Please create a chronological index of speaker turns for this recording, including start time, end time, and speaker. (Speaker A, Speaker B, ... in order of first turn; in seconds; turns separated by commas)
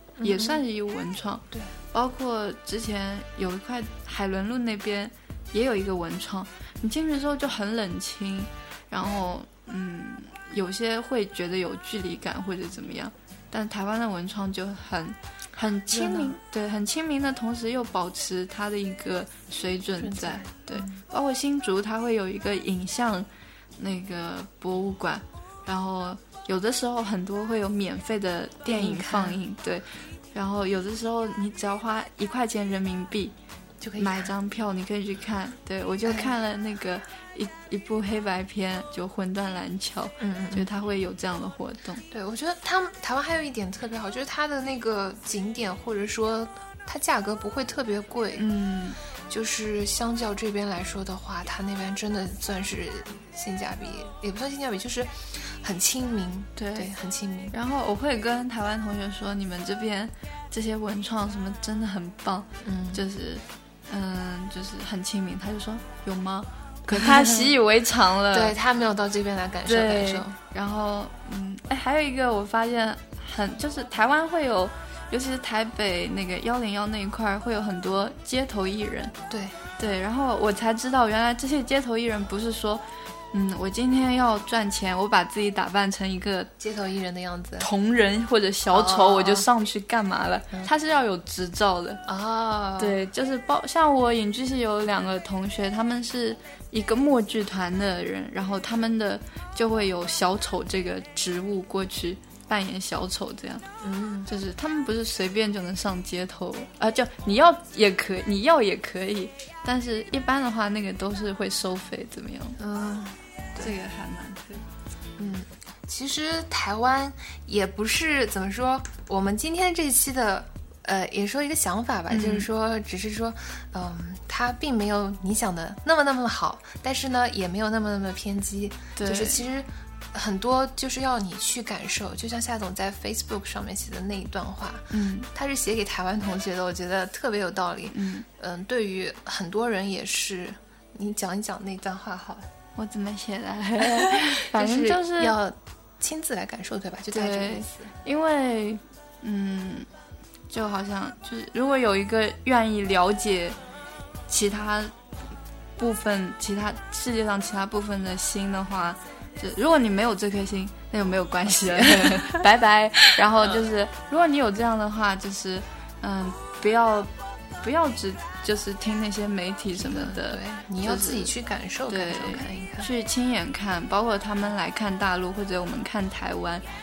Speaker A: 0.2-0.6, Speaker B: 0.2-33.3, Speaker A: 15.9-16.3, Speaker A: 20.0-21.0, Speaker A: 28.6-29.4, Speaker A: 33.8-34.3, Speaker B: 34.0-42.0, Speaker A: 36.0-36.3, Speaker A: 40.2-40.7, Speaker A: 42.1-48.4, Speaker B: 48.4-49.0, Speaker A: 49.3-57.5, Speaker B: 56.6-56.9, Speaker B: 57.5-68.5, Speaker A: 62.6-63.0, Speaker A: 66.9-67.5, Speaker A: 68.3-70.4, Speaker B: 69.7-79.1, Speaker A: 79.3-79.5, Speaker B: 79.8-86.5, Speaker A: 86.6-87.7, Speaker B: 87.6-92.0, Speaker A: 88.7-89.5, Speaker A: 92.0-93.0, Speaker B: 92.8-103.6, Speaker A: 103.8-104.3, Speaker B: 104.3-112.6, Speaker A: 112.6-113.7, Speaker B: 113.6-114.7, Speaker A: 115.2-142.5, Speaker B: 122.1-122.5, Speaker B: 128.9-129.4, Speaker B: 134.9-135.3, Speaker B: 137.9-138.2, Speaker B: 142.8-145.3, Speaker A: 143.8-147.9, Speaker B: 147.1-149.9, Speaker B: 150.5-153.6, Speaker B: 154.3-154.9, Speaker B: 155.8-171.3, Speaker A: 161.4-162.4, Speaker A: 163.1-163.7, Speaker A: 169.8-172.9, Speaker B: 171.9-176.6